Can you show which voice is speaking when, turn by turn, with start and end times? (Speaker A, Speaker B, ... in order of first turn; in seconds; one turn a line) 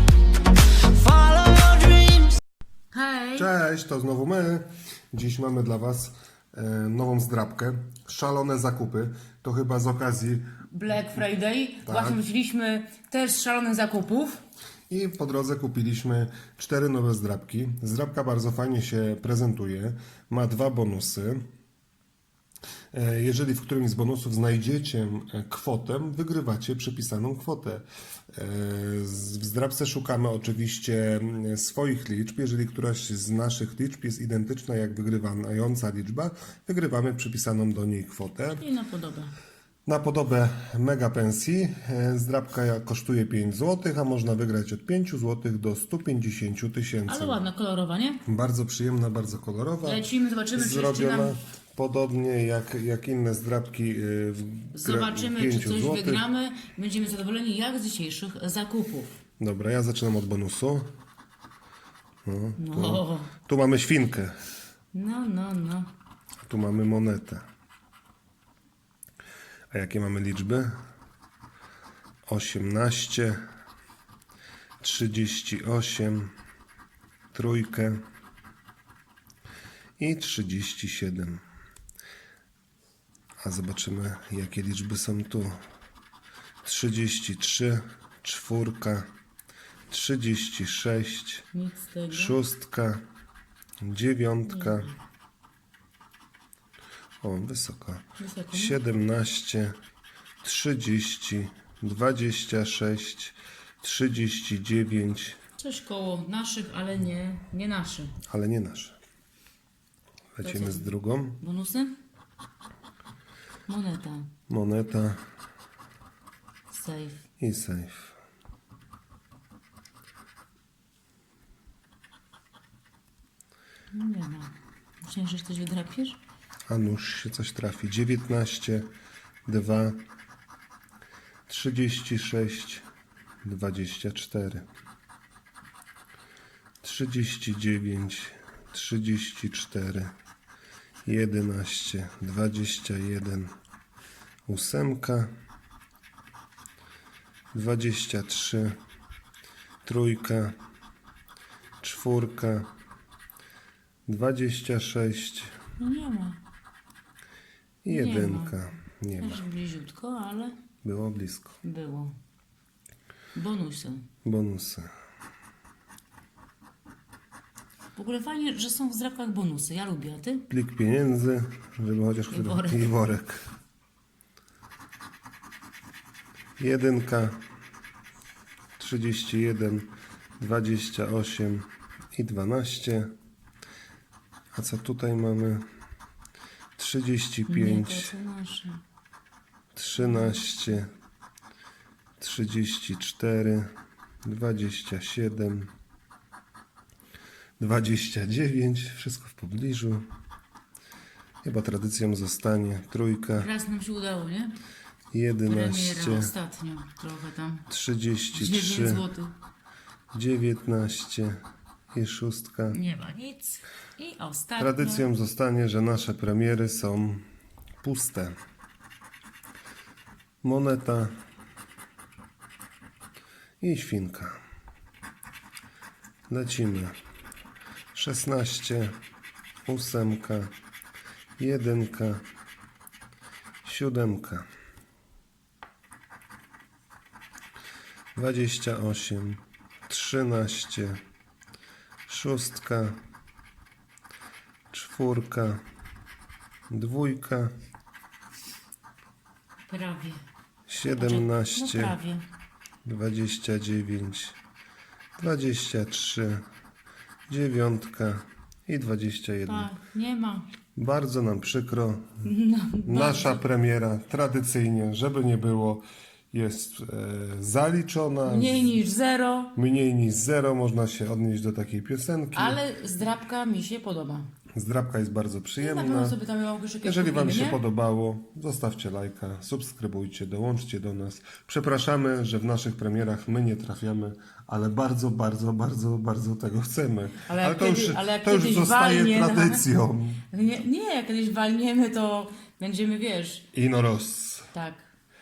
Speaker A: 1.0-2.3
Speaker A: 2.9-3.5
Speaker B: 3.4-10.5
Speaker A: 10.7-14.4
Speaker B: 11.8-12.2
Speaker B: 14.9-21.4
Speaker B: 22.9-38.6
Speaker A: 38.5-39.3
Speaker B: 39.9-47.4
Speaker A: 47.1-48.2
Speaker B: 48.3-56.2
Speaker A: 49.8-51.4
Speaker A: 54.7-59.1
Speaker B: 59.4-60.9
Speaker B: 62.2-64.4
Speaker A: 62.6-63.3
Speaker A: 64.9-65.9
Speaker B: 66.4-67.5
Speaker B: 69.7-70.8
Speaker B: 72.3-73.4
Speaker B: 74.8-76.3
Speaker B: 77.3-78.0
Speaker B: 80.0-81.4
Speaker B: 83.4-85.6
Speaker B: 86.6-89.1
Speaker B: 89.9-91.5
Speaker A: 91.5-92.4
Speaker B: 92.1-93.0
Speaker B: 93.8-94.9
Speaker A: 94.5-94.9
Speaker B: 97.2-99.8
Speaker A: 98.2-98.8
Speaker B: 100.4-105.4
Speaker A: 105.6-108.2
Speaker B: 108.3-109.0
Speaker B: 110.4-111.4
Speaker A: 110.4-111.9
Speaker A: 113.7-114.3
Speaker B: 114.5-115.2
Speaker A: 116.7-117.2
Speaker B: 117.4-118.2
Speaker A: 123.9-126.2
Speaker B: 126.7-128.9
Speaker B: 129.5-130.0
Speaker B: 131.5-132.8
Speaker B: 133.4-134.7
Speaker B: 136.8-140.1
Speaker B: 141.1-143.5
Speaker B: 144.5-145.3
Speaker B: 147.5-148.8
Speaker B: 149.8-150.6
Speaker B: 151.8-152.7
Speaker B: 154.1-155.6
Speaker A: 155.8-156.4
Speaker B: 157.8-159.4
Speaker A: 157.9-158.6
Speaker A: 159.2-160.5
Speaker B: 160.8-161.6
Speaker A: 161.6-162.1
Speaker A: 163.3-164.1
Speaker B: 164.2-164.9
Speaker A: 167.9-170.5
Speaker B: 170.5-173.4
Speaker A: 172.3-172.9
Speaker B: 176.6-177.4
Speaker B: 178.8-183.1
Speaker B: 184.5-185.7
Speaker B: 186.8-188.1
Speaker A: 187.5-188.8
Speaker B: 189.8-190.9
Speaker A: 190.0-190.8
Speaker B: 192.2-193.7
Speaker B: 194.2-195.7
Speaker B: 197.6-200.1
Speaker B: 201.4-203.5
Speaker A: 203.4-204.6
Speaker B: 205.1-206.3
Speaker A: 205.4-207.6
Speaker B: 207.7-209.1
Speaker A: 208.3-209.3
Speaker B: 210.1-211.4
Speaker B: 211.9-212.8
Speaker A: 212.7-215.1
Speaker B: 214.6-217.2
Speaker B: 217.8-218.3
Speaker B: 220.4-221.1
Speaker B: 223.6-224.4
Speaker B: 226.3-227.0
Speaker B: 227.9-228.9
Speaker B: 229.7-230.5
Speaker B: 231.4-232.2
Speaker B: 233.6-234.5
Speaker B: 238.2-241.0
Speaker B: 242.1-243.0
Speaker B: 244.7-245.6
Speaker B: 246.7-247.5
Speaker A: 249.7-250.2
Speaker B: 250.7-252.0
Speaker A: 250.9-252.2
Speaker B: 252.8-254.4
Speaker B: 255.2-256.4
Speaker B: 257.3-259.7
Speaker A: 259.5-260.5
Speaker B: 260.8-262.2
Speaker A: 262.2-263.4
Speaker B: 262.9-268.8
Speaker A: 268.3-269.5
Speaker B: 269.6-272.6
Speaker A: 272.3-274.3
Speaker B: 274.6-276.2
Speaker A: 275.6-277.6
Speaker B: 276.8-290.2
Speaker A: 287.2-289.7
Speaker A: 290.3-293.4
Speaker B: 293.5-294.5
Speaker A: 294.5-294.9